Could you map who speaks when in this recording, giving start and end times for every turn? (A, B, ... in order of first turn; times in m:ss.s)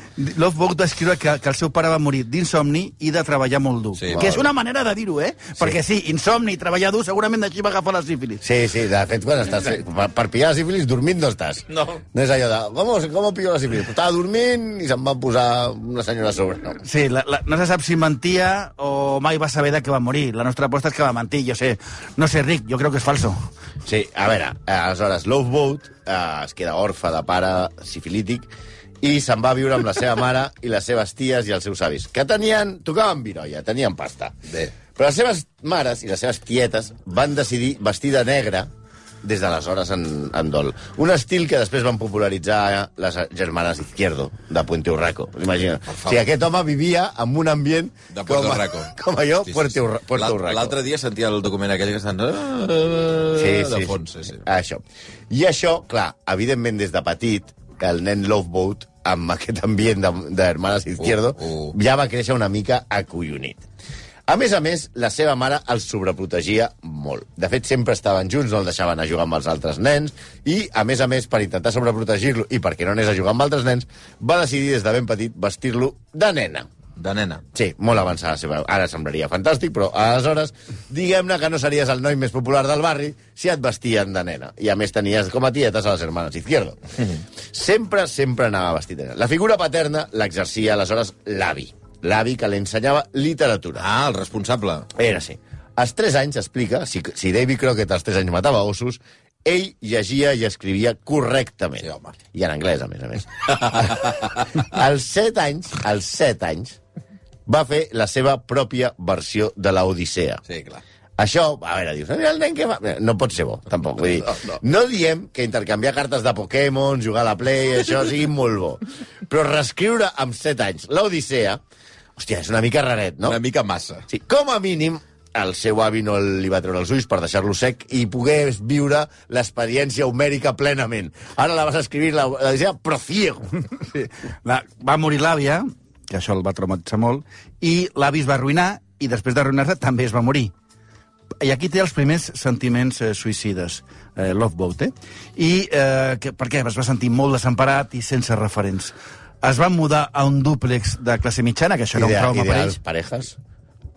0:00.2-0:08.4 A
0:04.0-0:04.4 B
0:04.2-0:04.5 C
0:08.4-0:16.8 C
0:11.7-0:12.0 B
0:16.8-0:23.5 A
0:23.9-0:28.5 C
0:29.0-0:34.4 C
0:34.9-0:38.7 C
0:39.2-0:50.8 C
0:45.9-0:46.2 B
0:48.1-0:48.9 B
0:49.5-0:54.4 B
0:53.3-1:03.7 C
1:01.0-1:01.8 B
1:04.3-1:16.7 C
1:17.0-1:17.4 B
1:17.5-1:26.9 C
1:27.5-1:33.9 C
1:33.8-1:34.9 B
1:35.0-1:46.8 C
1:41.8-1:42.1 B
1:44.1-1:44.4 B
1:47.5-1:50.4 C
1:50.5-1:50.8 B
1:51.2-2:01.6 C
1:54.2-1:54.6 B
2:02.2-2:03.4 C
2:03.2-2:04.0 B
2:04.1-2:13.6 C
2:13.9-2:20.5 A
2:21.4-2:32.8 A
2:31.9-2:33.4 C